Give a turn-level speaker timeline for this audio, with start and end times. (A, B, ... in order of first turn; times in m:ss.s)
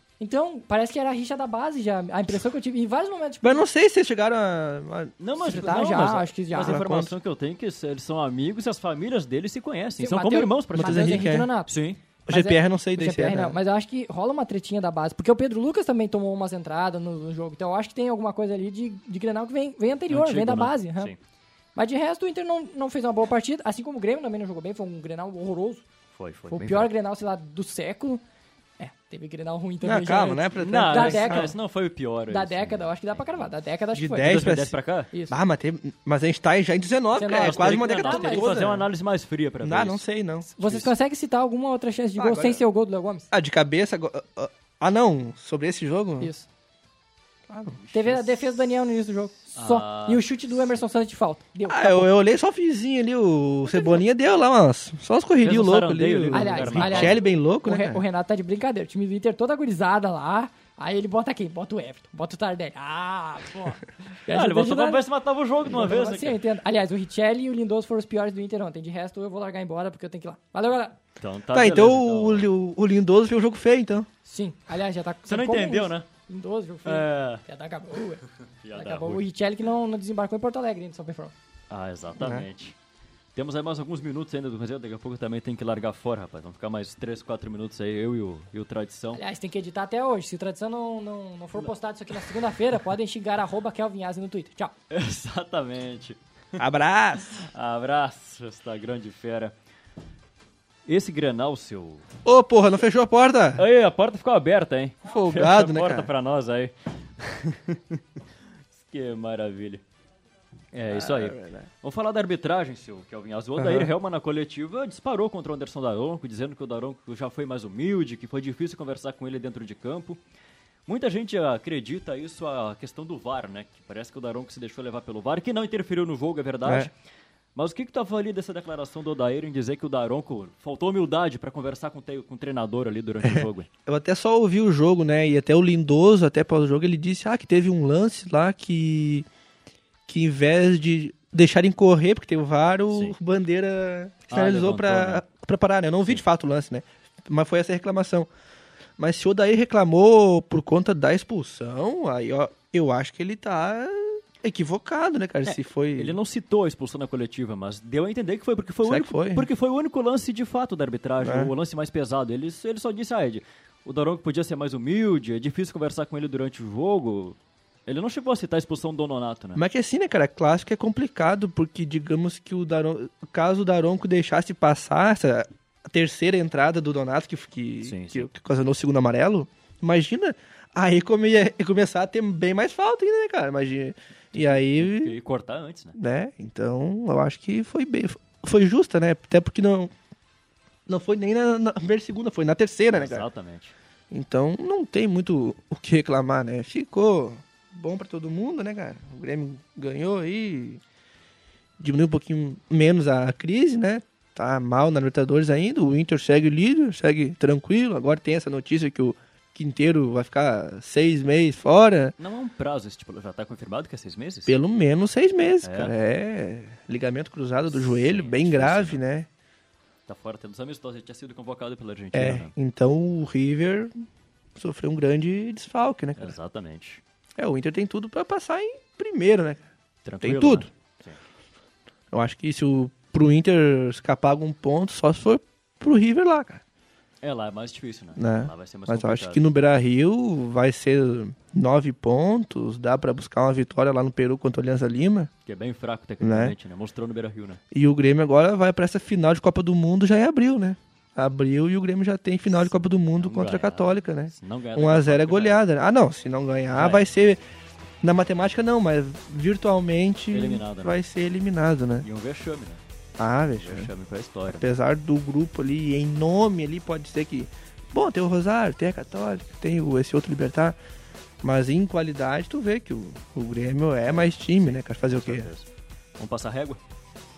0:00.2-0:03.6 A
0:03.4-0:05.1 B
0:05.2-0:12.0 C
0:05.4-0:06.8 A
0:06.6-0:07.1 B
0:10.0-0:11.7 A
0:10.7-0:11.5 B
0:12.3-0:13.6 B
0:12.3-0:21.1 A
0:20.1-0:21.2 C
0:21.7-0:25.8 A
0:26.1-0:26.9 C
0:26.5-0:28.2 A
0:28.8-0:31.6 A
0:29.8-0:31.5 B
0:30.6-0:33.5 C
0:32.3-0:34.5 A
0:33.9-0:34.7 B
0:34.2-0:35.1 C
0:35.3-0:38.8 B
0:37.1-0:38.8 A
0:37.3-0:40.0 C
0:39.6-0:40.9 B
0:40.6-0:43.3 A
0:42.2-0:42.6 B
0:43.3-0:46.3 B
0:46.2-0:46.5 A
0:47.5-0:47.8 B
0:47.8-0:48.5 C
0:47.9-0:52.1 A
0:49.6-0:50.4 C
0:51.7-0:58.0 B
0:53.6-0:54.0 A
0:55.4-0:57.2 C
0:56.3-1:05.0 A
1:04.3-1:06.4 C
1:05.6-1:11.0 A
1:11.2-1:12.5 C
1:11.5-1:14.1 B
1:14.2-1:21.3 A
1:15.3-1:16.1 C
1:16.8-1:17.4 C
1:18.6-1:19.2 C
1:21.7-1:22.8 C
1:22.2-1:22.5 B
1:23.3-1:29.2 C
1:29.1-1:34.7 A
1:34.9-1:36.6 C
1:36.6-1:37.4 B
1:37.5-1:39.5 C
1:40.8-1:42.0 C
1:42.2-1:43.6 B
1:43.6-1:48.0 C
1:45.0-1:46.1 B
1:48.7-1:49.8 C
1:50.7-2:00.2 C
1:50.9-1:51.7 B
1:53.6-1:53.9 B
2:00.9-2:06.9 C
2:06.6-2:06.9 B
2:07.5-2:13.7 C
2:13.2-2:19.2 B
2:20.1-2:28.3 B
2:24.3-2:25.2 C
2:29.0-2:36.2 B
2:35.4-2:49.6 C
2:38.8-2:39.5 B
2:41.2-2:41.5 B
2:49.6-3:05.1 B
2:57.8-2:58.3 C
3:04.3-3:06.0 C
3:06.0-3:09.9 B
3:10.9-3:13.2 B
3:12.9-3:13.7 C
3:14.1-3:20.8 B
3:21.8-3:32.1 B
3:32.2-3:34.6 C
3:34.5-3:39.3 B
3:35.6-3:35.9 C
3:37.7-3:39.0 C
3:40.1-3:42.5 C
3:42.1-3:43.9 B
3:44.6-3:46.3 B
3:46.2-3:47.0 C
3:47.4-3:49.6 B
3:50.0-3:51.2 C
3:50.2-3:50.7 B
3:52.1-3:56.6 B
3:57.2-3:59.5 C
3:58.2-4:05.3 B
4:05.4-4:07.6 C
4:06.2-4:06.5 B
4:07.7-4:17.4 B
4:12.5-4:15.6 C
4:16.7-4:17.1 C
4:18.0-4:22.1 B
4:20.3-4:21.0 C
4:22.0-4:22.8 C
4:23.2-4:23.9 B
4:23.5-4:24.8 C
4:24.6-4:30.8 B
4:31.4-4:35.5 B
4:34.0-4:35.7 C
4:36.2-4:36.8 C